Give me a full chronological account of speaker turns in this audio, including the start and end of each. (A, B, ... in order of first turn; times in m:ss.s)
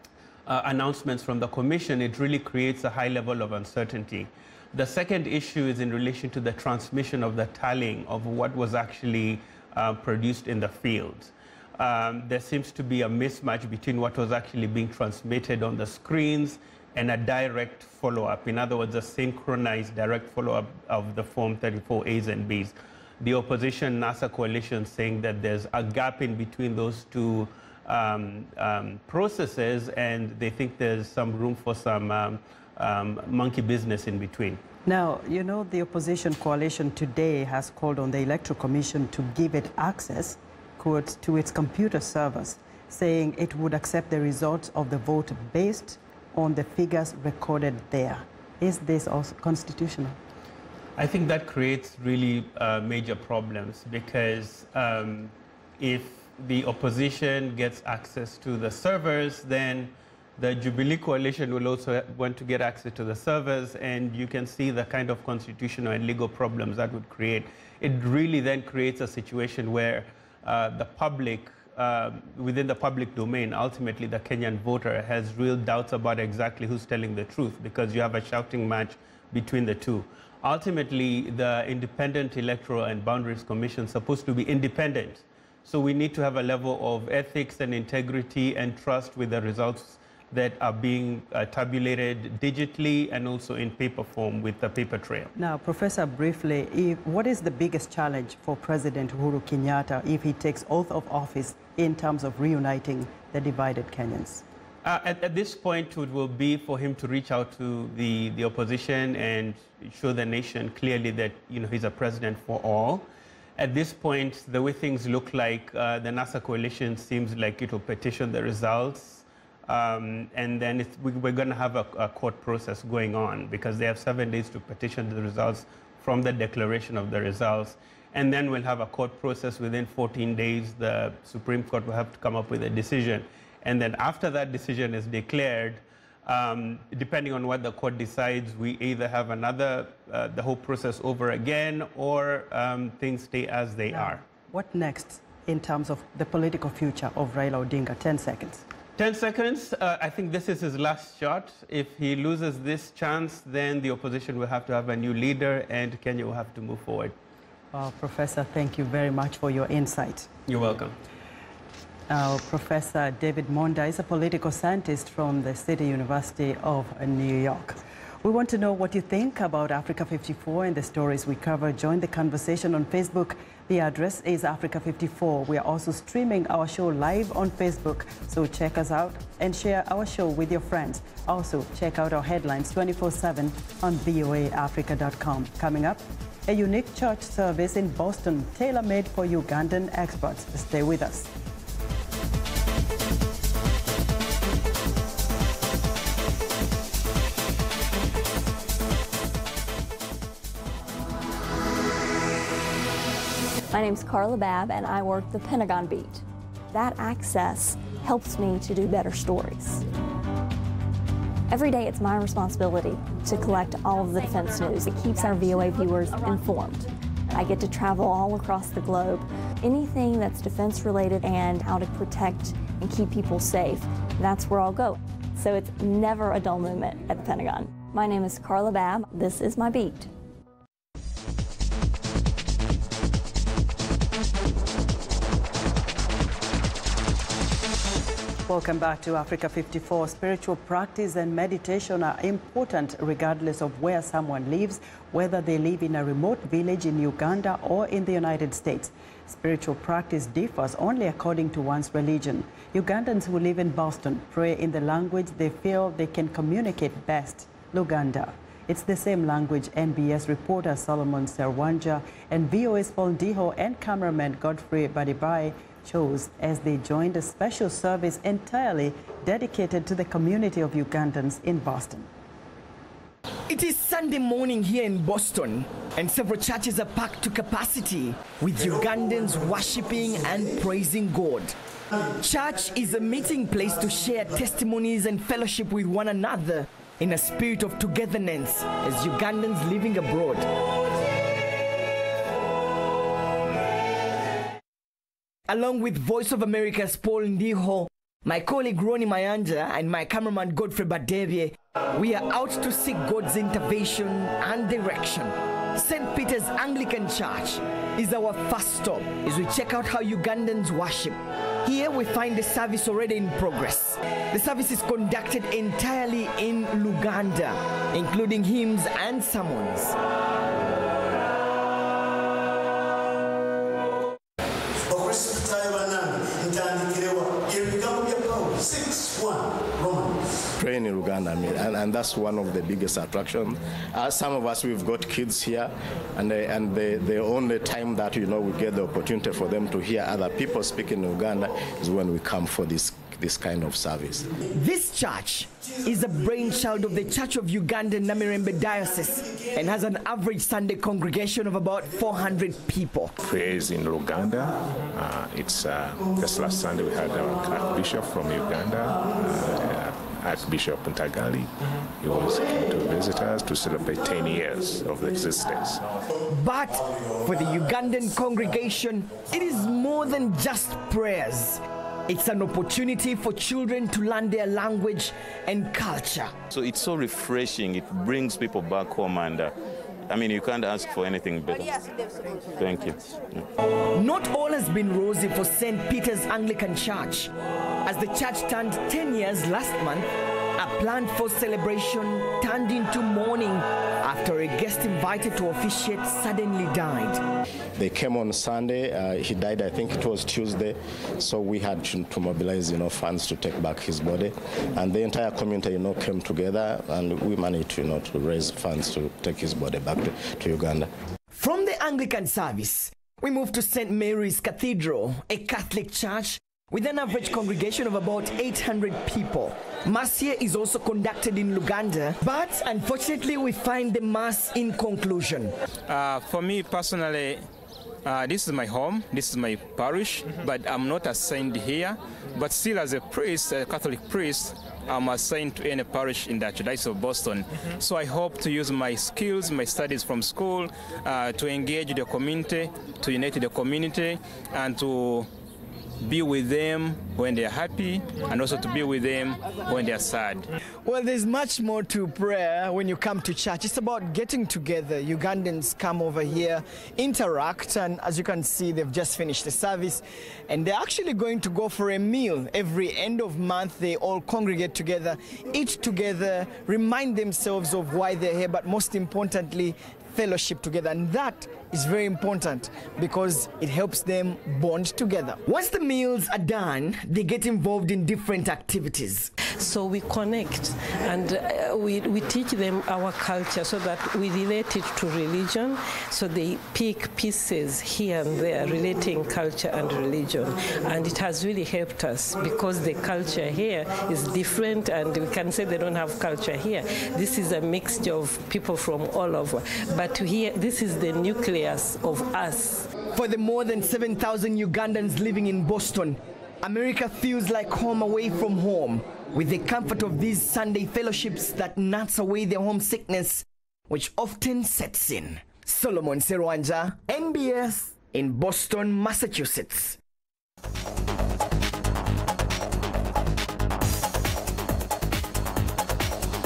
0:00.5-0:34.6 A
0:34.9-0:50.2 B
0:51.0-1:35.3 A
1:35.4-1:44.4 B
1:44.8-2:24.2 A
2:23.9-2:28.6 B
2:29.0-2:37.2 A
2:37.7-2:40.3 B
2:40.5-2:41.0 A
2:42.1-3:11.3 B
3:23.7-3:29.8 C
3:31.5-3:50.1 C
3:58.5-4:32.1 B
4:33.5-4:41.5 D
4:42.2-4:50.5 D
4:55.5-5:19.9 D
5:24.9-5:30.2 E
5:30.6-5:44.3 F
5:44.5-5:53.1 D
5:53.2-6:05.8 G
6:06.3-6:16.4 D
6:16.5-6:19.5 E
6:20.1-6:21.8 E
6:22.6-6:23.4 E
6:24.0-6:27.3 D
6:27.8-6:37.2 D
6:37.8-6:50.9 F
6:51.3-7:05.5 D
7:05.9-7:07.5 H
7:08.0-7:25.3 H
7:26.0-7:30.5 H
7:30.8-7:59.3 D
7:59.4-8:22.8 I
8:23.1-8:40.0 D